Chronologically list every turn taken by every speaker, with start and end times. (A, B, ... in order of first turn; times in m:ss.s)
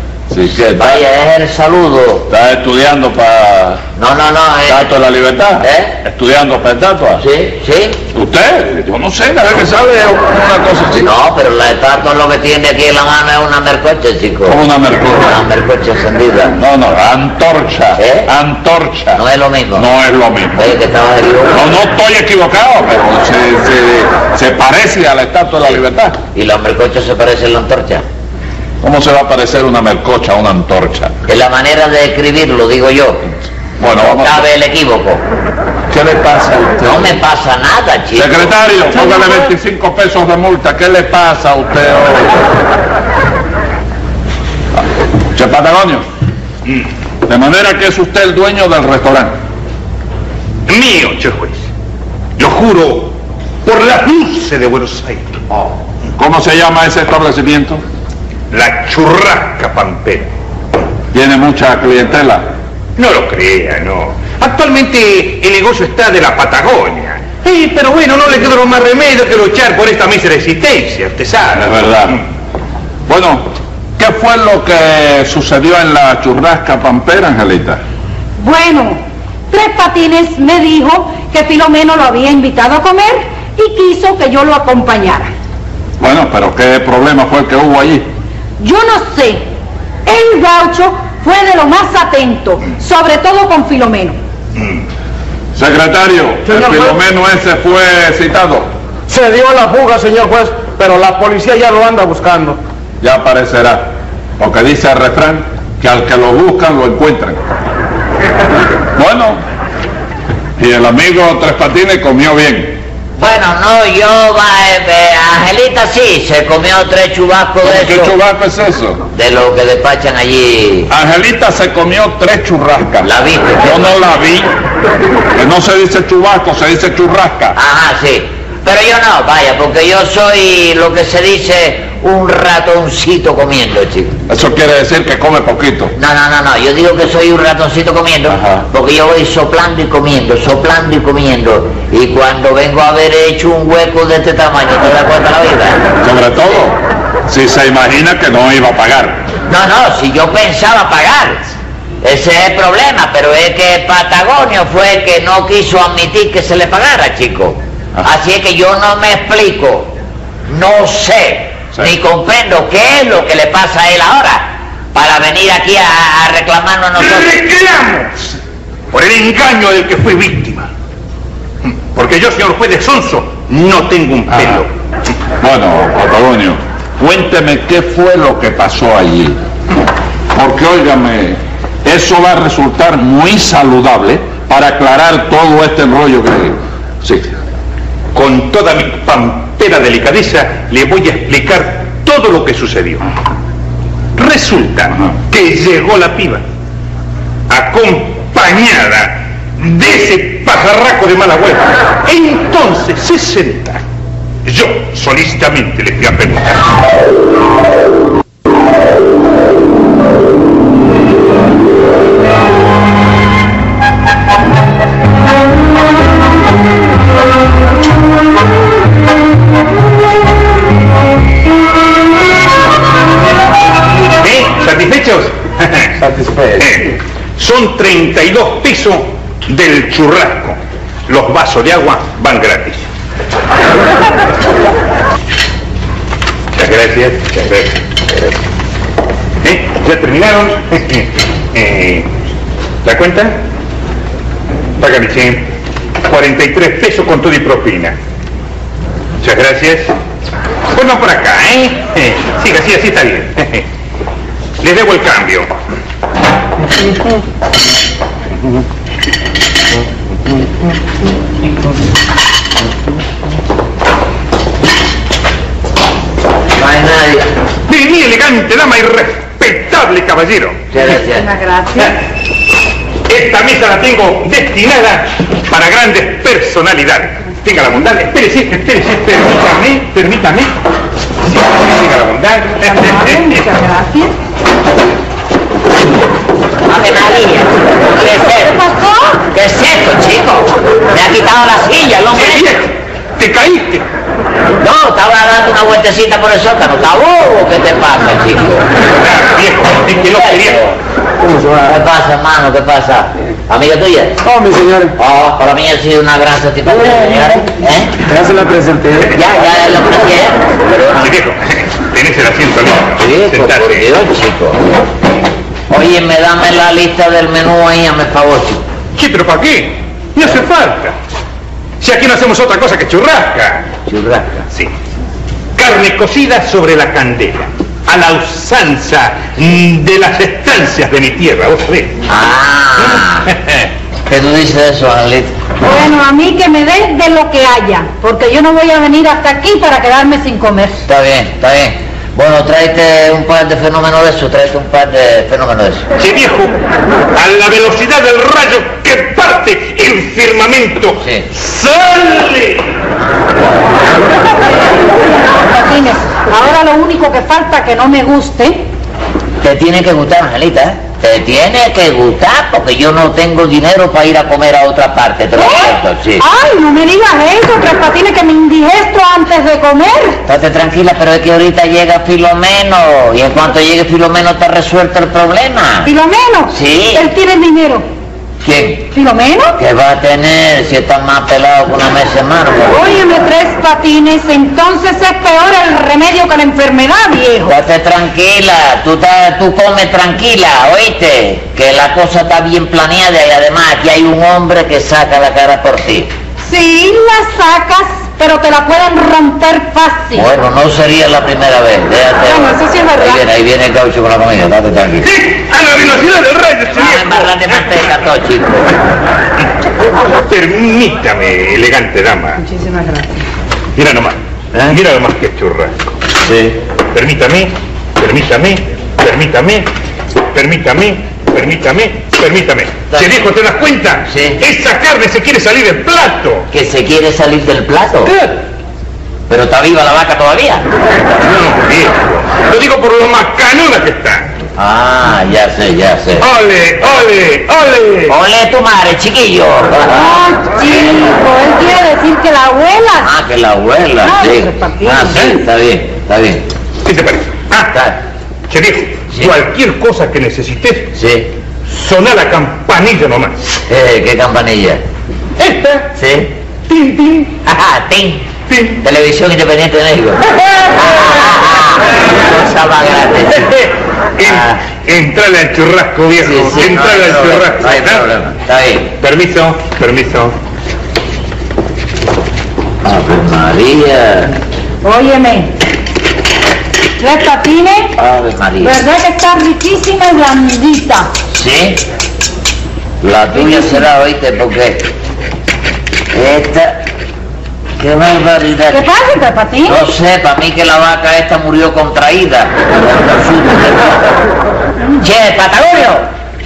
0:00.3-0:01.0 A
0:00.5-0:02.3 B
0:02.3-0:03.8 A
0:04.0-0:04.9 B
0:04.7-0:07.2 A
0:05.6-0:05.9 B
0:07.2-0:08.0 B
0:08.1-0:11.1 A
0:10.9-0:14.6 B
0:14.5-0:15.4 A
0:15.1-0:16.6 B
0:16.6-0:19.2 A
0:18.0-0:18.3 B
0:19.1-0:19.9 B
0:19.7-0:20.7 A
0:20.6-0:21.6 B
0:21.5-0:26.2 A
0:26.3-0:28.0 B
0:28.8-0:31.2 A
0:31.3-0:33.4 B
0:33.8-0:34.5 A
0:34.0-0:35.2 B
0:35.9-0:37.2 A
0:36.8-0:38.5 B
0:38.1-0:42.5 A
0:45.3-0:46.1 A
0:47.2-0:49.4 A
0:50.7-0:51.7 C
0:52.4-0:55.7 C
0:56.2-0:57.8 A
0:58.5-1:00.3 C
1:01.1-1:02.5 A
1:03.0-1:12.2 C
1:11.6-1:12.2 A
1:13.1-1:17.8 A
1:18.4-1:25.3 D
1:26.0-1:28.1 A
1:28.6-1:29.5 D
1:30.0-1:34.2 D
1:35.5-1:38.7 A
1:36.5-1:37.0 E
1:39.1-1:42.6 E
1:43.0-1:47.4 A
1:49.0-1:49.4 A
1:50.6-1:52.8 A
1:53.2-1:58.1 B
1:57.6-1:59.0 A
1:59.1-2:00.9 B
2:00.9-2:03.1 A
2:03.0-2:04.0 B
2:03.6-2:04.5 A
2:05.3-2:07.6 A
2:07.5-2:14.2 B
2:14.3-2:15.9 A
2:16.0-2:25.9 B
2:18.3-2:18.6 A
2:26.0-2:29.2 A
2:29.5-2:39.9 B
2:40.5-2:47.4 B
2:47.0-2:48.4 C
2:48.9-2:50.7 C
2:51.6-2:54.7 C
2:55.4-2:59.4 A
3:00.3-3:07.3 A
3:08.1-3:13.1 C
3:14.1-3:16.4 C
3:17.5-3:23.8 C
3:24.4-3:26.6 C
3:44.2-3:45.9 C
3:46.0-3:46.6 A
3:46.6-3:52.9 C
3:56.5-3:57.8 C
3:59.4-4:02.1 C
4:02.8-4:03.4 C
4:04.8-4:05.5 C
4:06.0-4:08.0 C
4:09.2-4:09.9 C
4:10.7-4:13.6 C
4:14.6-4:15.5 C
4:26.5-4:27.3 B
4:27.7-4:30.6 C
4:30.7-4:31.3 B
4:30.9-4:32.0 D
4:33.1-4:40.5 C
4:41.2-4:43.4 C
4:42.6-4:44.1 D
4:46.6-4:48.6 B
4:48.4-4:49.2 D
4:49.3-4:52.5 B
4:52.1-4:53.9 C
4:54.6-4:58.7 B
4:58.9-5:00.8 C
5:00.1-5:00.6 B
5:01.4-5:04.2 B
5:04.2-5:04.9 E
5:05.0-5:08.0 B
5:08.1-5:09.1 E
5:09.0-5:11.1 B
5:10.9-5:13.9 C
5:13.0-5:14.6 B
5:15.7-5:18.6 B
5:18.9-5:20.9 C
5:21.8-5:23.7 C
5:23.9-5:24.4 B
5:25.6-5:32.0 C
5:32.1-5:33.3 B
5:33.3-5:33.6 C
5:34.0-5:35.3 B
5:35.6-5:40.8 D
5:40.9-5:45.9 B
5:46.0-5:46.6 C
5:47.1-5:52.7 C
5:54.5-5:58.6 D
5:59.4-6:06.2 B
6:05.4-6:10.2 D
6:10.2-6:15.9 B
6:15.8-6:17.8 D
6:16.5-6:17.1 B
6:18.4-6:18.9 B
6:18.9-6:19.6 D
6:19.6-6:22.8 B
6:22.7-6:27.5 D
6:27.4-6:36.1 B
6:36.4-6:40.3 D
6:40.1-6:45.1 B
6:42.2-6:43.2 D
6:45.0-6:47.6 C
6:46.7-6:48.8 B
6:50.0-6:52.4 C
6:52.4-6:53.2 D
6:53.8-6:55.9 C
6:56.2-6:56.6 B
6:56.9-6:59.7 C
7:00.3-7:06.5 C
7:04.1-7:04.4 B
7:06.5-7:08.1 B
7:08.0-7:08.4 C
7:09.3-7:10.7 B
7:11.2-7:14.3 C
7:14.6-7:16.3 B
7:16.2-7:18.2 C
7:18.1-7:20.2 B
7:19.9-7:23.1 D
7:23.0-7:26.5 B
7:24.0-7:25.4 D
7:26.8-7:27.8 C
7:27.7-7:28.0 B
7:28.5-7:31.0 C
7:30.9-7:31.3 B
7:31.7-7:33.4 C
7:33.7-7:34.8 B
7:35.4-7:35.8 C
7:35.9-7:36.3 B
7:36.8-7:37.2 C
7:37.4-7:43.6 B
7:38.5-7:38.8 C
7:43.4-7:48.1 C
7:44.2-7:44.5 B
7:46.2-7:48.9 B
7:49.0-7:50.3 C
7:52.8-7:54.4 B
7:54.8-7:55.6 D
7:57.0-7:58.0 D
7:58.0-7:58.8 B
7:58.6-8:01.1 D
8:01.3-8:01.8 B
8:03.0-8:04.9 B
8:06.1-8:06.8 B
8:07.8-8:08.8 B
8:08.7-8:09.8 D
8:09.7-8:14.2 B
8:15.0-8:16.1 B